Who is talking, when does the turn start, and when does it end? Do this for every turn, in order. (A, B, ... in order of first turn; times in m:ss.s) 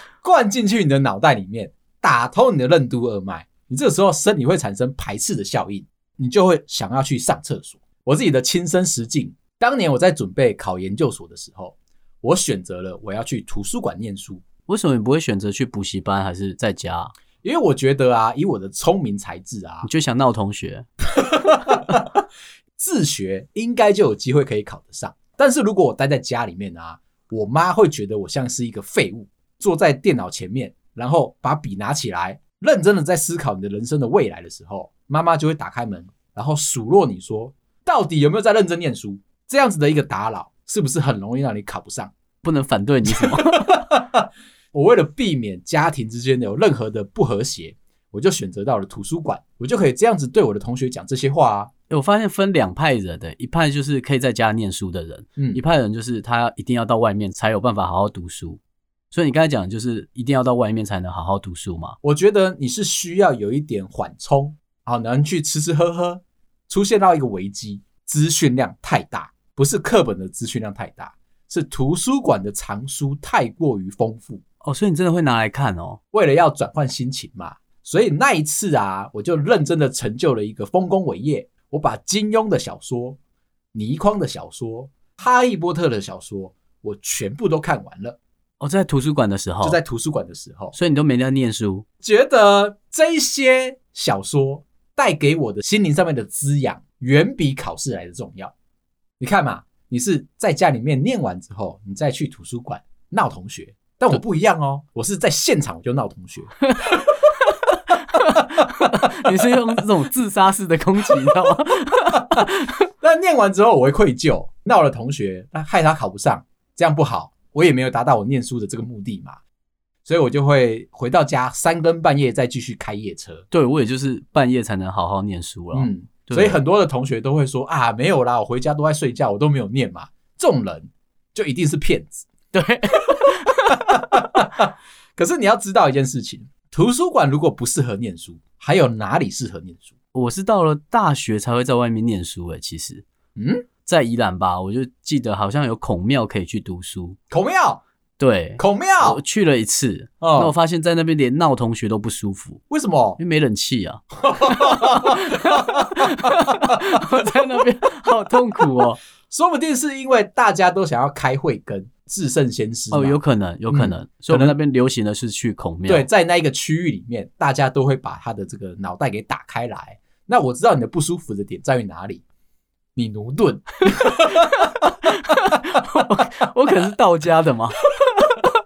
0:00.2-0:14.4 A
0:14.7-0:17.1 B
0:17.4-0:19.9 A
0:19.8-0:20.9 B
0:21.2-0:22.1 A
0:22.8-0:42.1 A
0:42.4-0:43.8 B
0:43.1-0:51.7 A
0:51.9-0:58.6 B
0:59.1-1:02.0 B
1:02.0-1:14.4 A
1:14.6-1:16.0 B
1:16.1-1:23.2 A
1:23.7-1:28.2 A
1:28.6-1:29.8 B
1:29.6-1:30.8 A
1:30.7-1:31.8 B
1:32.0-1:38.5 A
1:39.2-1:47.4 A
1:48.1-1:52.8 B
1:48.2-1:49.6 A
1:52.1-1:52.5 A
1:53.0-1:59.4 A
2:00.0-2:03.5 A
2:03.5-2:06.6 B
2:05.7-2:12.3 A
2:12.5-2:14.1 B
2:13.2-2:19.9 A
2:20.1-2:23.0 B
2:23.4-2:23.6 A
2:23.8-2:27.2 B
2:27.3-2:27.8 A
2:28.2-2:32.6 B
2:28.6-2:29.2 A
2:30.2-2:30.5 A
2:32.7-2:33.2 A
2:33.2-2:39.0 B
2:34.2-2:37.0 A
2:39.3-2:43.2 A
2:42.9-2:46.1 B
2:43.7-2:44.6 A
2:45.8-2:52.2 A
2:53.0-2:56.2 A
2:55.2-2:57.8 B